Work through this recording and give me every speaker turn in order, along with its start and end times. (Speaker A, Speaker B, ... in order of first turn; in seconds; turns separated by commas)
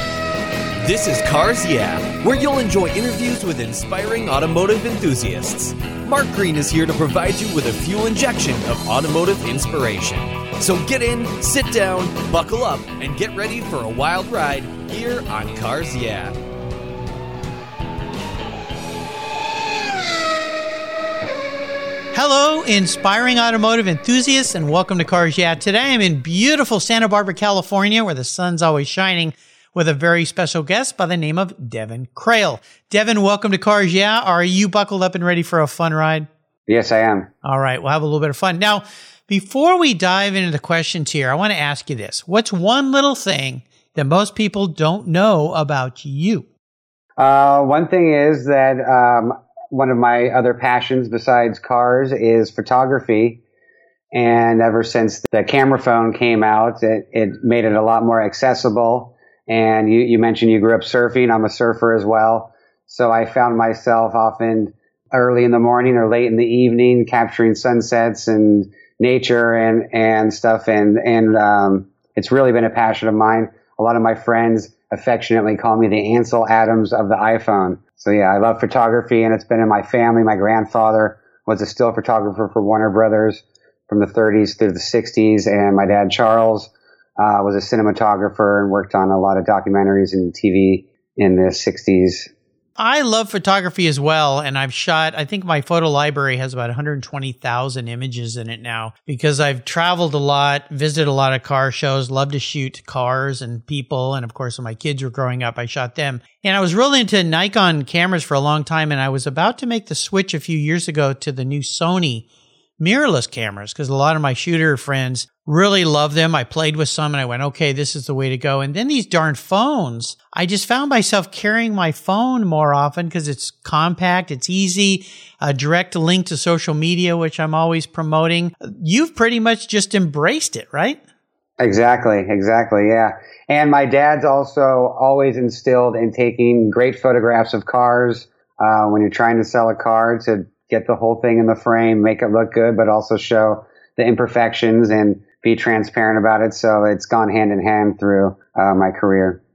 Speaker A: 0.8-16.4, Speaker B: 22.1-36.3, Speaker C: 36.7-37.3, Speaker B: 37.4-46.5, Speaker C: 47.2-53.4, Speaker C: 54.1-92.3, Speaker B: 92.8-112.2, Speaker B: 112.8-131.0, Speaker C: 131.6-149.4